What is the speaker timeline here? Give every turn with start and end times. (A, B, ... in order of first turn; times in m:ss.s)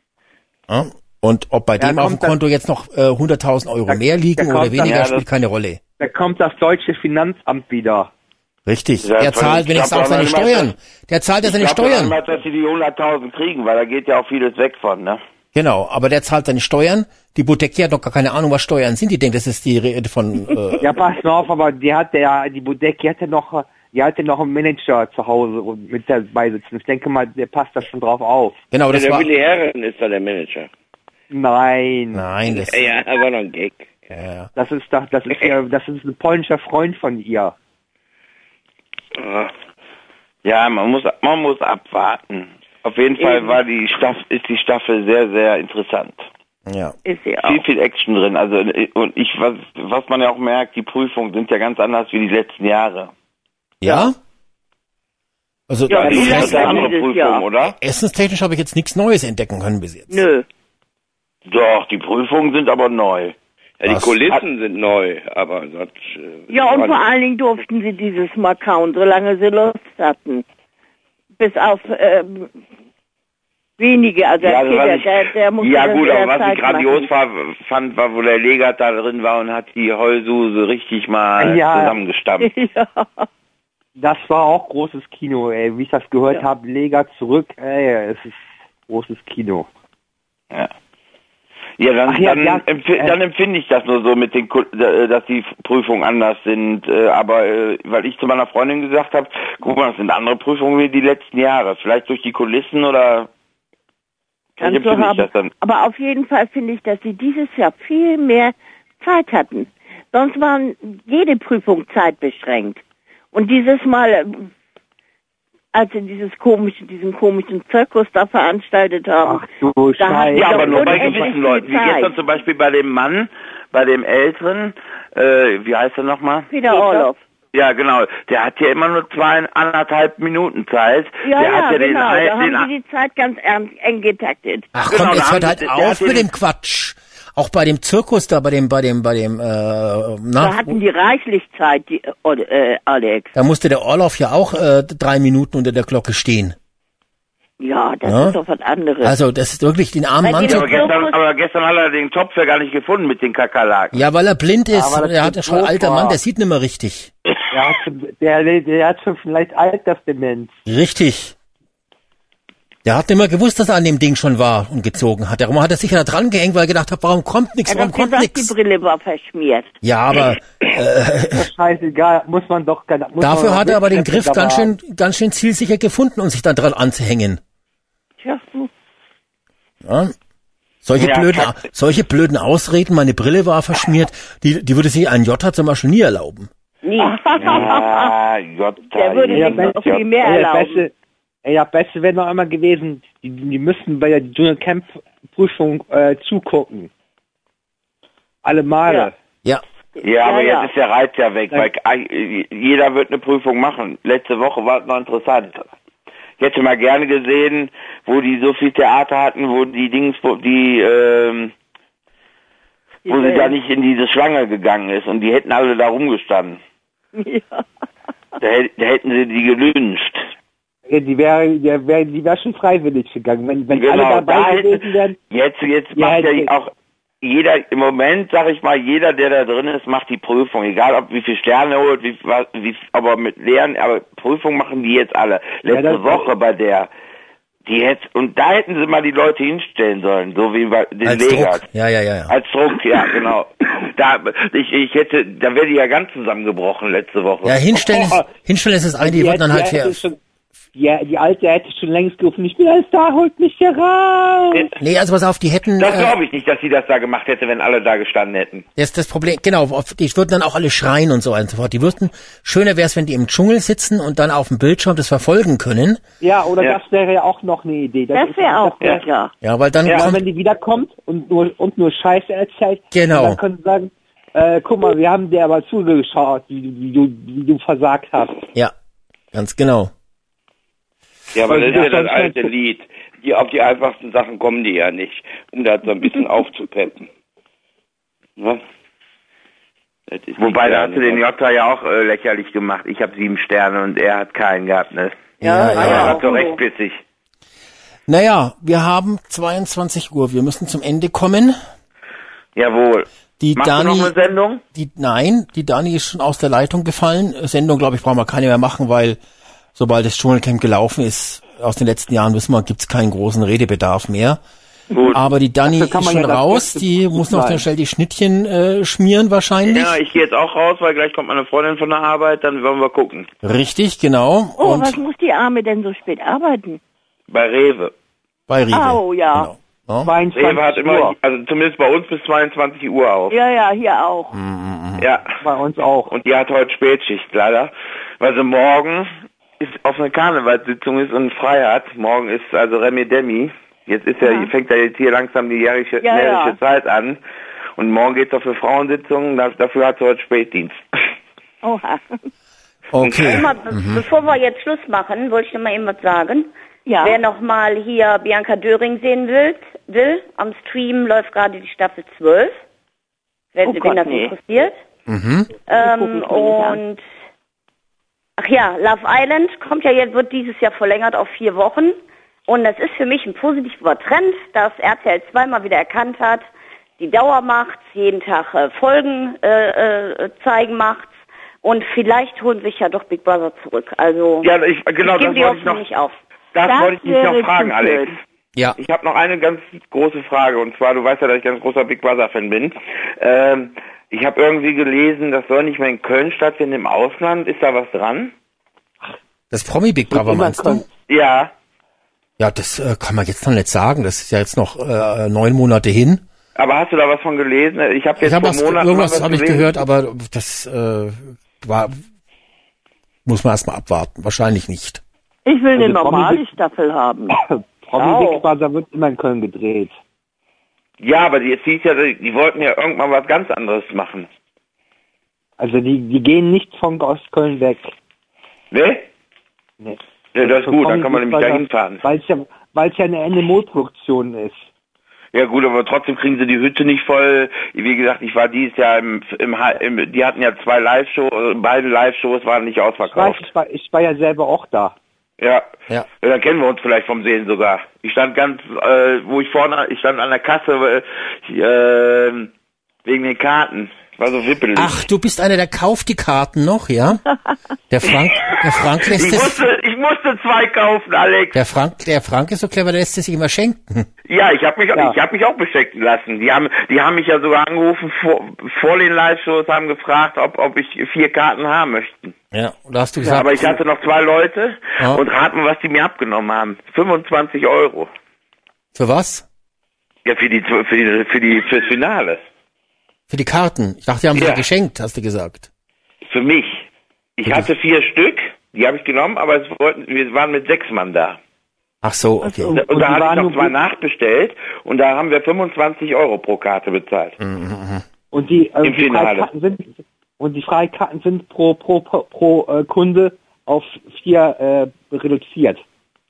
0:00.7-0:05.8 A
0:01.8-0:02.4 B
0:03.9-0:05.2 B
0:04.8-0:05.2 C
0:06.0-0:08.1 B
0:08.6-0:12.2 A
0:09.0-0:10.7 C
0:11.4-0:15.2 C
0:15.5-0:21.0 A
0:20.8-0:28.6 B
0:28.7-0:29.3 A
0:28.9-0:30.7 D
0:31.3-0:32.2 B
0:32.1-0:32.8 A
0:32.4-0:34.1 D
0:34.1-0:34.5 A
0:34.5-0:37.6 B
0:39.2-0:39.5 D
0:40.4-0:46.2 C
0:43.2-0:43.6 E
0:46.6-0:46.9 A
0:47.0-0:47.6 E
0:47.4-0:53.1 C
0:53.8-0:54.2 A
0:53.8-0:54.1 E
0:55.7-0:56.9 A
0:55.9-0:57.4 E
0:55.9-0:57.8 C
0:56.0-0:56.8 D
0:57.6-1:00.2 A
1:00.1-1:00.4 E
1:01.5-1:03.3 C
1:03.8-1:07.1 D
1:03.8-1:04.2 A
1:06.5-1:10.4 E
1:11.4-1:12.5 E
1:13.8-1:17.1 E
1:14.4-1:22.5 C
1:21.4-1:22.0 B
1:22.4-1:23.3 E
1:24.0-1:29.7 B
1:31.8-1:43.3 C
1:32.0-1:33.2 B
1:44.6-1:45.5 C
1:44.6-1:52.8 E
1:53.3-1:54.5 E
1:55.7-1:59.4 E
1:59.2-2:01.4 B
2:00.0-2:02.1 E
2:00.3-2:06.5 C
2:06.5-2:07.2 E
2:06.6-2:07.1 F
2:07.5-2:12.7 C
2:11.2-2:14.7 E
2:14.7-2:20.8 A
2:14.9-2:16.3 C
2:20.4-2:23.3 E
2:23.3-2:26.6 A
2:27.6-2:29.2 E
2:28.0-2:28.4 A
2:29.0-2:30.9 A
2:30.2-2:31.2 F
2:30.4-2:34.1 C
2:33.9-2:37.1 A
2:34.7-2:36.2 B
2:37.5-2:40.5 B
2:40.6-2:41.4 A
2:42.8-2:48.5 A
2:47.7-2:49.7 E
2:49.8-2:51.5 A
2:51.3-2:54.7 B
2:53.2-2:57.4 A
2:58.2-2:58.7 E
2:59.8-3:00.1 A
3:00.8-3:06.5 A
3:01.0-3:01.6 C
3:06.8-3:07.6 F
3:07.0-3:08.1 E
3:07.4-3:10.1 C
3:08.9-3:10.8 E
3:09.3-3:10.9 B
3:11.4-3:16.9 B
3:18.4-3:19.1 B
3:20.0-3:20.7 E
3:20.0-3:25.6 C
3:26.4-3:31.5 C
3:33.0-3:33.5 E
3:33.1-3:36.6 C
3:37.1-3:37.6 E
3:38.4-3:40.2 C
3:40.9-3:45.2 B
3:43.7-3:46.7 C
3:45.9-3:46.5 B
3:47.2-3:56.9 C
3:55.7-3:56.3 B
3:57.6-4:01.6 C
4:01.0-4:02.3 A
4:02.3-4:07.9 C
4:07.4-4:10.0 A
4:07.9-4:08.3 B
4:09.0-4:10.2 B
4:10.7-4:14.7 B
4:14.8-4:16.2 A
4:15.8-4:18.6 C
4:18.8-4:26.0 A
4:26.2-4:29.0 B
4:28.1-4:29.3 E
4:29.4-4:30.2 A
4:29.8-4:30.1 C
4:29.9-4:38.4 B
4:32.9-4:33.4 A
4:39.3-4:39.9 A
4:41.3-4:47.1 D
4:41.4-4:42.5 B
4:50.1-4:51.2 D
4:50.4-4:57.0 C
4:55.4-4:56.2 A
4:55.4-4:55.8 E
4:55.8-4:56.6 F
4:58.1-5:01.6 A
5:02.6-5:04.6 C
5:03.4-5:04.1 A
5:04.7-5:09.2 A
5:09.7-5:14.4 A
5:14.9-5:15.2 C
5:14.9-5:17.6 B
5:15.1-5:20.0 A
5:19.6-5:23.3 C
5:23.4-5:25.0 A
5:24.6-5:26.8 E
5:27.3-5:27.9 C
5:28.5-5:30.1 A
5:28.7-5:29.5 E
5:30.0-5:31.1 B
5:30.3-5:33.4 C
5:33.3-5:34.3 E
5:34.3-5:35.0 A
5:35.0-5:35.3 C
5:35.4-5:36.1 B
5:36.1-5:47.2 C
5:44.2-5:44.5 E
5:46.0-5:46.6 E
5:47.8-5:50.8 C
5:51.6-5:52.2 E
5:52.9-5:54.0 A
5:53.0-6:02.6 F
5:56.8-5:57.2 E
6:03.5-6:04.8 F
6:03.6-6:04.3 E
6:05.1-6:05.5 A
6:05.6-6:07.0 F
6:05.8-6:06.8 E
6:08.4-6:24.5 F
6:24.4-6:25.8 C
6:25.0-6:26.2 F
6:26.5-6:28.2 C
6:26.6-6:28.2 E
6:28.8-6:38.3 C
6:39.5-6:40.8 A
6:40.1-6:40.8 B
6:41.1-6:41.5 C
6:42.4-6:46.2 A
6:46.6-6:49.8 C
6:48.2-6:52.0 A
6:53.2-6:55.0 A
6:55.4-6:57.4 E
6:55.8-6:56.5 B
6:57.3-6:59.9 B
6:58.0-6:58.4 F
7:01.0-7:04.3 C
7:05.6-7:07.9 B
7:08.7-7:09.0 C
7:09.8-7:14.6 B
7:10.3-7:12.0 C
7:15.3-7:23.5 C
7:23.1-7:25.0 B
7:25.4-7:25.7 C
7:26.2-7:32.5 C
7:33.0-7:35.0 C
7:34.8-7:37.2 A
7:37.9-7:39.6 A
7:38.0-7:41.6 C
7:41.5-7:44.1 A
7:44.3-7:52.3 C
7:44.9-7:45.2 B
7:52.5-7:53.8 A
7:53.2-7:58.1 C
7:58.9-7:59.4 A
8:00.2-8:02.4 C
8:03.3-8:05.7 A
8:04.3-8:04.6 C
8:06.3-8:06.8 C
8:07.4-8:11.4 C
8:07.4-8:07.7 A
8:12.0-8:12.8 A
8:12.6-8:13.8 B
8:12.7-8:17.4 C
8:17.4-8:18.0 A
8:18.3-8:25.8 B
8:18.8-8:19.5 C